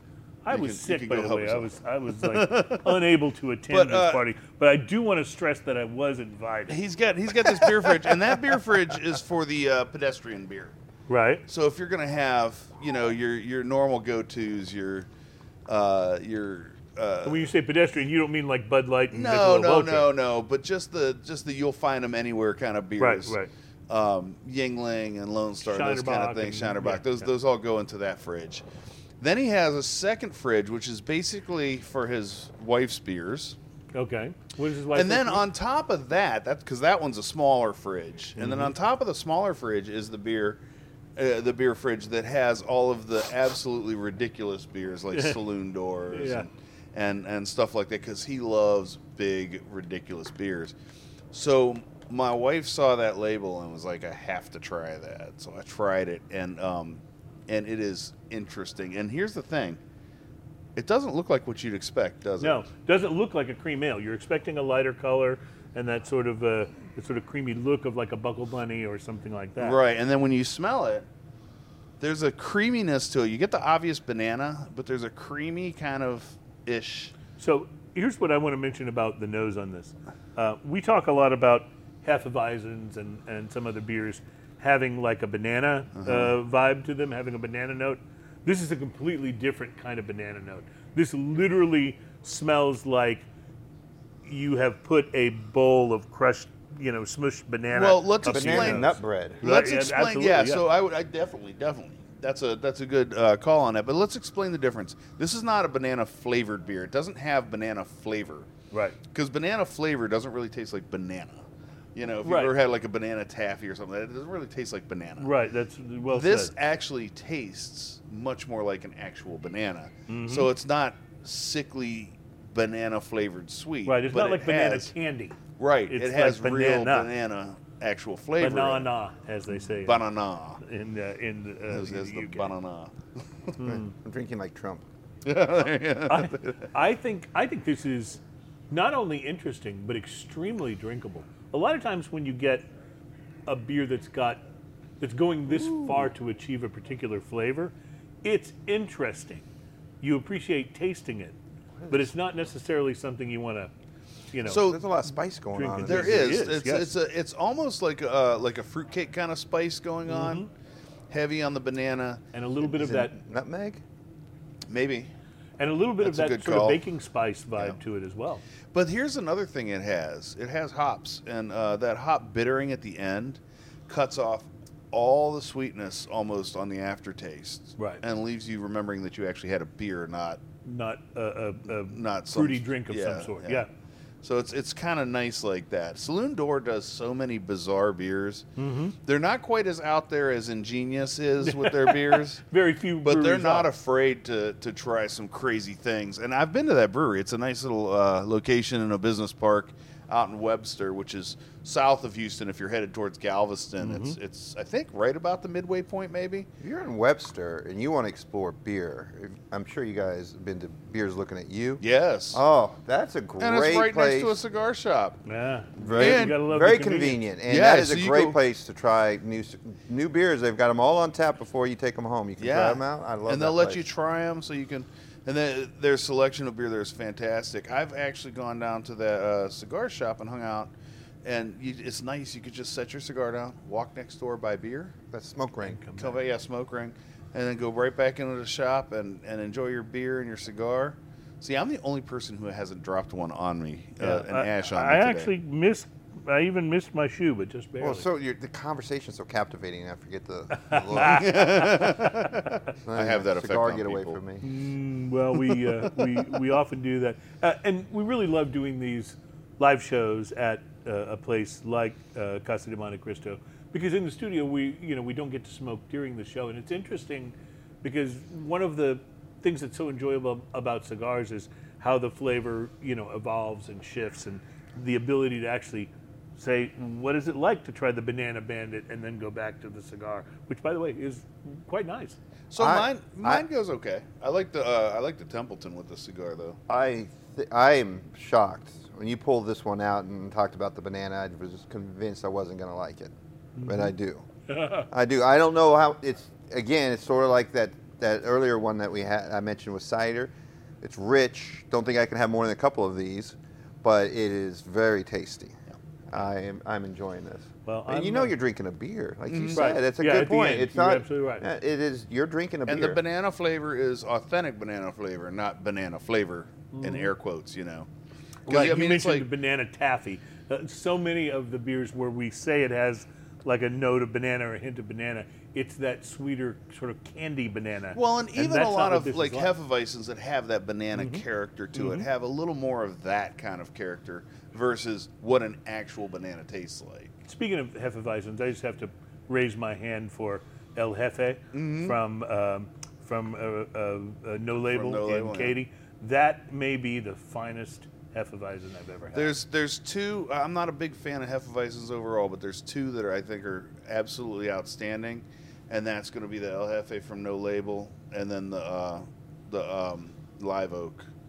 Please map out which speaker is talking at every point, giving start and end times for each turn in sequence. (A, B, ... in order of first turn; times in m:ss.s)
0:00.4-0:06.8 A
0:00.5-0:03.0 B
0:03.7-0:04.2 B
0:06.7-0:10.7 B
0:07.5-0:08.2 A
0:11.1-0:11.4 A
0:11.5-0:15.1 B
0:15.7-0:17.4 B
0:17.2-0:20.1 A
0:19.1-0:23.4 B
0:23.0-0:23.5 A
0:23.9-0:28.6 B
0:25.6-0:27.3 A
0:29.2-0:33.6 B
0:33.9-0:35.4 A
0:34.9-0:40.6 B
0:38.4-0:38.7 A
0:41.2-0:50.7 B
0:46.1-0:46.5 A
0:51.3-0:59.8 B
1:00.8-1:02.6 B
1:02.4-1:09.8 A
1:09.6-1:11.1 B
1:12.0-1:17.1 B
1:17.4-1:33.2 A
1:25.9-1:26.3 B
1:34.2-1:40.6 A
1:37.7-1:48.5 B
1:38.2-1:39.4 C
1:48.7-1:49.0 A
1:49.1-1:55.3 B
1:52.2-1:52.5 A
1:55.2-1:56.5 A
1:56.1-2:04.9 B
2:00.1-2:00.5 A
2:03.8-2:05.4 A
2:05.6-2:08.9 B
2:05.9-2:07.1 A
2:08.4-2:10.0 A
2:09.6-2:10.6 B
2:10.6-2:12.5 A
2:11.7-2:13.6 B
2:13.6-2:13.9 A
2:13.7-2:14.8 C
2:15.2-2:16.7 B
2:16.1-2:22.6 A
2:23.5-2:24.4 A
2:25.0-2:27.7 A
2:28.2-2:29.4 A
2:30.0-2:31.4 A
2:31.9-2:33.7 A
2:34.3-2:34.6 A
2:34.4-2:34.8 B
2:34.5-2:36.4 C
2:35.5-2:36.9 A
2:35.8-2:40.5 B
2:40.1-2:40.5 A
2:41.1-2:42.2 B
2:42.3-2:43.1 A
2:42.6-2:43.8 C
2:44.7-2:45.1 B
2:45.6-2:48.4 A
2:46.0-2:46.8 B
2:48.7-3:00.4 B
3:00.6-3:03.7 A
3:01.9-3:03.6 B
3:04.2-3:08.5 B
3:08.6-3:09.0 A
3:09.0-3:12.4 B
3:11.4-3:13.7 A
3:13.0-3:26.5 B
3:23.8-3:24.2 A
3:26.6-3:31.8 C
3:31.8-3:32.4 B
3:32.3-3:34.4 C
3:33.4-3:35.2 B
3:35.2-3:37.2 A
3:35.8-3:43.8 C
3:35.9-3:36.4 B
3:37.5-3:38.4 B
3:42.4-3:50.7 B
3:51.2-3:54.9 B
3:55.1-3:55.8 C
3:55.6-3:56.2 A
3:56.0-4:05.3 B
4:04.0-4:08.0 A
4:07.8-4:11.7 C
4:10.5-4:11.8 A
4:10.9-4:14.2 B
4:12.8-4:14.4 C
4:14.4-4:42.2 A
4:15.5-4:16.0 B
4:42.5-4:46.6 B
4:42.6-4:43.4 C
4:46.7-4:54.2 C
4:53.6-4:53.9 A
4:54.5-4:54.9 A
4:54.9-5:13.0 C
5:07.6-5:08.3 A
5:09.3-5:09.6 B
5:09.5-5:11.4 A
5:12.7-5:17.9 B
5:16.7-5:17.1 A
5:18.4-5:19.3 B
5:18.5-5:29.5 A
5:27.9-5:37.1 B
5:30.9-5:31.2 A
5:31.7-5:32.0 A
5:37.2-5:49.4 A
5:41.5-5:42.0 B
5:44.6-5:45.6 B
5:49.1-6:01.1 B